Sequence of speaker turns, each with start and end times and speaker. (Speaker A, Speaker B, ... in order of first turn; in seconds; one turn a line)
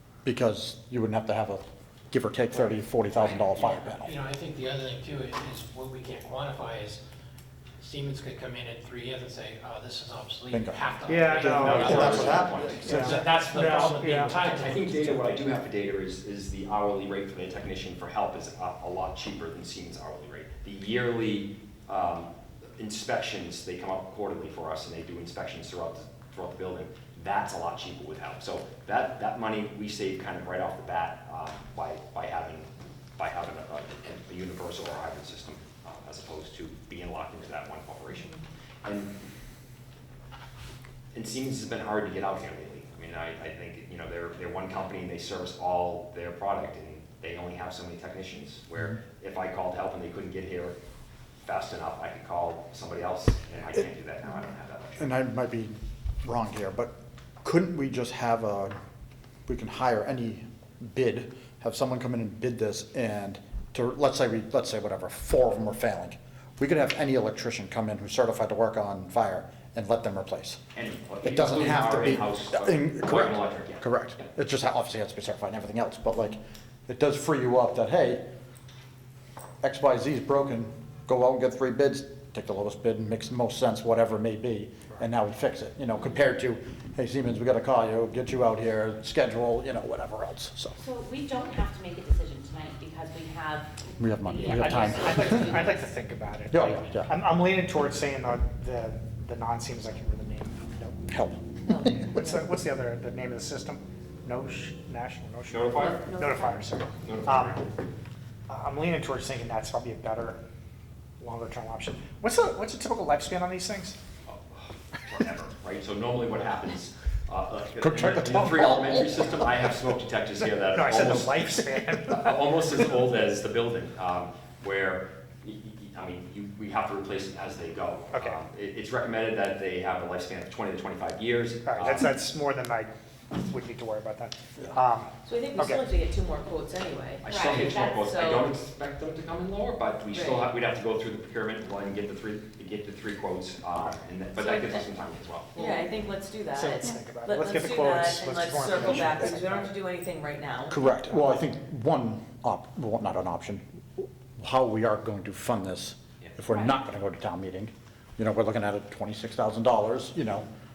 Speaker A: 0.2-4.1
Speaker B: 3.1-7.0
Speaker B: 7.8-15.4
Speaker A: 10.5-10.8
Speaker C: 11.1-14.3
Speaker D: 11.4-39.1
Speaker A: 11.7-13.0
Speaker D: 41.1-50.8
Speaker D: 51.4-55.1
Speaker A: 55.0-58.8
Speaker A: 59.5-70.6
Speaker D: 70.7-74.0
Speaker A: 71.2-78.2
Speaker A: 79.6-90.8
Speaker E: 90.8-95.8
Speaker A: 94.0-95.5
Speaker C: 94.4-101.0
Speaker A: 96.5-97.1
Speaker A: 101.1-101.4
Speaker F: 101.7-102.5
Speaker C: 102.1-107.6
Speaker D: 105.5-106.1
Speaker D: 107.0-107.7
Speaker C: 108.5-110.4
Speaker C: 111.2-114.0
Speaker D: 114.3-132.1
Speaker A: 117.8-119.3
Speaker C: 120.7-122.4
Speaker C: 128.1-128.4
Speaker C: 131.6-135.8
Speaker F: 135.2-138.5
Speaker D: 137.2-145.5
Speaker E: 137.2-138.0
Speaker F: 140.1-140.5
Speaker F: 144.4-144.8
Speaker F: 145.5-150.8
Speaker C: 145.6-145.8
Speaker C: 146.5-149.7
Speaker A: 148.8-149.2
Speaker A: 150.7-160.4
Speaker E: 156.5-156.8